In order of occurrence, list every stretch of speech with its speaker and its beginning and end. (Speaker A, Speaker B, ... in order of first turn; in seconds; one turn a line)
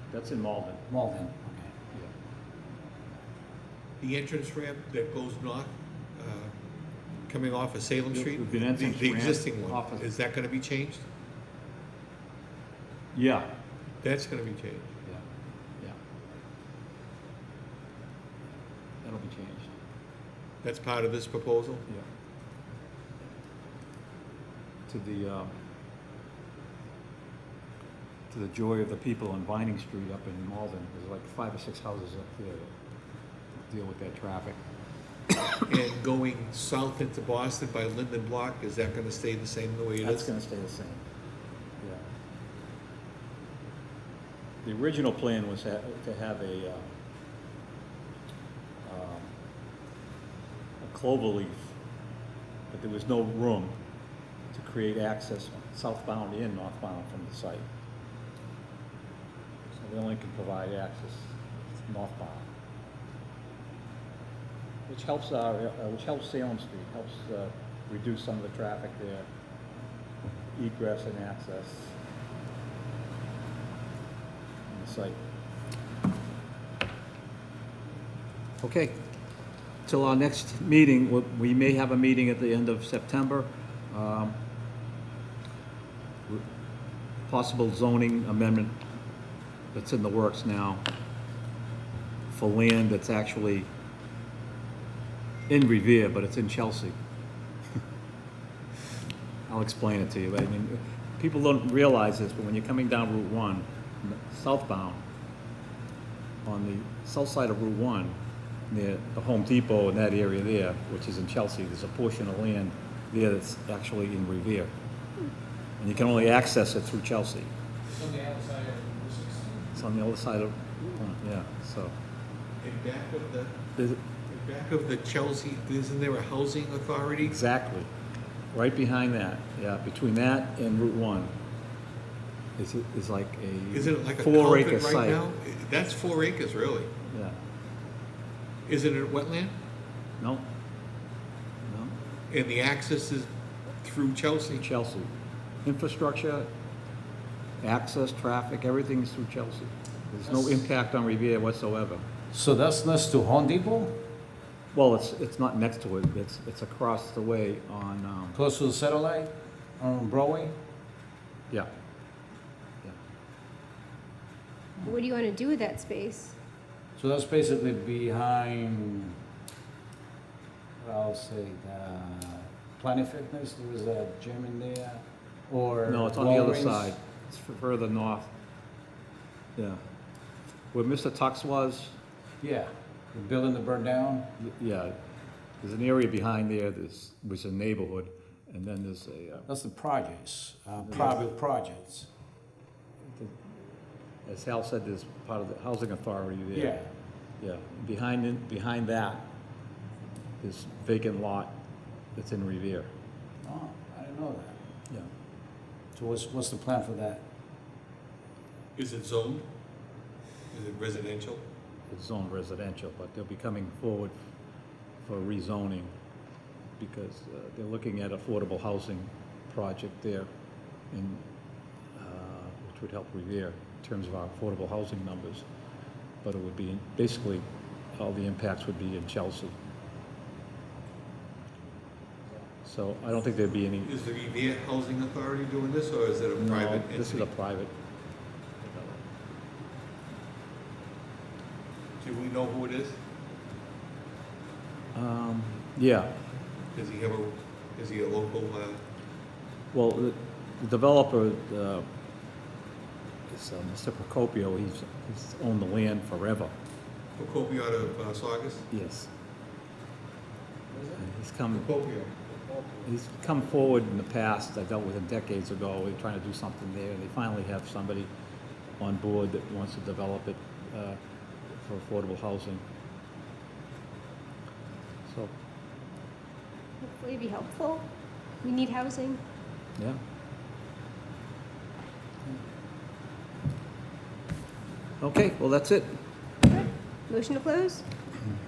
Speaker A: 0.1-0.8
Speaker B: 0.9-1.7
Speaker C: 4.0-6.5
Speaker C: 7.3-11.0
Speaker A: 8.1-10.1
Speaker A: 13.1-13.5
Speaker C: 14.0-15.0
Speaker A: 19.0-19.7
Speaker C: 20.6-21.9
Speaker A: 24.9-25.5
Speaker A: 28.3-32.7
Speaker A: 33.7-34.6
Speaker C: 35.6-40.3
Speaker A: 40.0-41.0
Speaker A: 44.6-46.9
Speaker A: 48.8-49.3
Speaker A: 50.8-51.7
Speaker A: 52.7-53.7
Speaker A: 54.5-57.6
Speaker A: 59.7-62.5
Speaker A: 64.9-69.3
Speaker A: 70.5-72.0
Speaker A: 74.7-75.2
Speaker A: 78.6-79.0
Speaker A: 79.8-84.4
Speaker A: 87.3-88.8
Speaker A: 89.7-90.9
Speaker A: 92.3-93.7
Speaker A: 95.5-97.0
Speaker A: 99.5-105.0
Speaker A: 106.4-108.2
Speaker A: 108.7-114.7
Speaker A: 115.8-117.5
Speaker B: 116.0-116.4
Speaker B: 117.9-119.8
Speaker A: 119.7-121.9
Speaker C: 122.6-127.4
Speaker A: 123.8-124.0
Speaker A: 127.2-127.9
Speaker A: 128.5-131.3
Speaker A: 132.6-135.2
Speaker C: 133.7-136.9
Speaker A: 137.1-137.4
Speaker C: 138.7-139.6
Speaker A: 140.2-140.5
Speaker A: 141.6-142.0
Speaker C: 142.3-144.7
Speaker A: 144.6-145.1
Speaker A: 145.6-146.5
Speaker A: 147.6-152.0
Speaker B: 150.2-150.7
Speaker B: 152.3-154.0
Speaker A: 154.7-158.4
Speaker B: 158.3-160.5
Speaker D: 164.8-166.3
Speaker B: 166.9-169.2
Speaker B: 170.8-176.9
Speaker A: 175.8-178.3
Speaker A: 179.6-179.8
Speaker A: 180.7-181.9
Speaker B: 182.4-184.3
Speaker A: 184.4-185.0
Speaker A: 185.6-189.5
Speaker B: 189.5-192.1
Speaker A: 190.8-191.2
Speaker A: 193.0-193.4
Speaker A: 194.2-196.8
Speaker B: 196.5-196.9
Speaker A: 197.4-199.2
Speaker A: 200.4-201.6
Speaker A: 202.2-202.9
Speaker B: 203.4-204.6
Speaker B: 205.9-207.2
Speaker C: 208.8-209.5
Speaker C: 210.5-211.4
Speaker A: 211.9-214.1
Speaker A: 215.0-215.9
Speaker A: 216.8-220.3
Speaker A: 220.9-221.2
Speaker A: 221.9-225.4
Speaker A: 226.2-229.5
Speaker A: 232.6-233.9
Speaker C: 233.8-237.3
Speaker A: 236.4-237.7
Speaker A: 238.6-239.0
Speaker C: 242.0-243.0
Speaker A: 244.9-246.2
Speaker C: 246.7-248.8
Speaker A: 249.7-251.9
Speaker A: 253.3-256.5
Speaker C: 257.2-258.7
Speaker A: 258.7-259.1
Speaker B: 260.7-261.0
Speaker A: 261.0-261.7
Speaker C: 261.5-262.9
Speaker A: 262.8-268.1
Speaker A: 268.8-271.0
Speaker A: 271.6-272.6
Speaker A: 275.1-275.3
Speaker D: 276.8-277.9
Speaker D: 278.4-279.2
Speaker A: 285.0-286.0
Speaker D: 286.5-287.8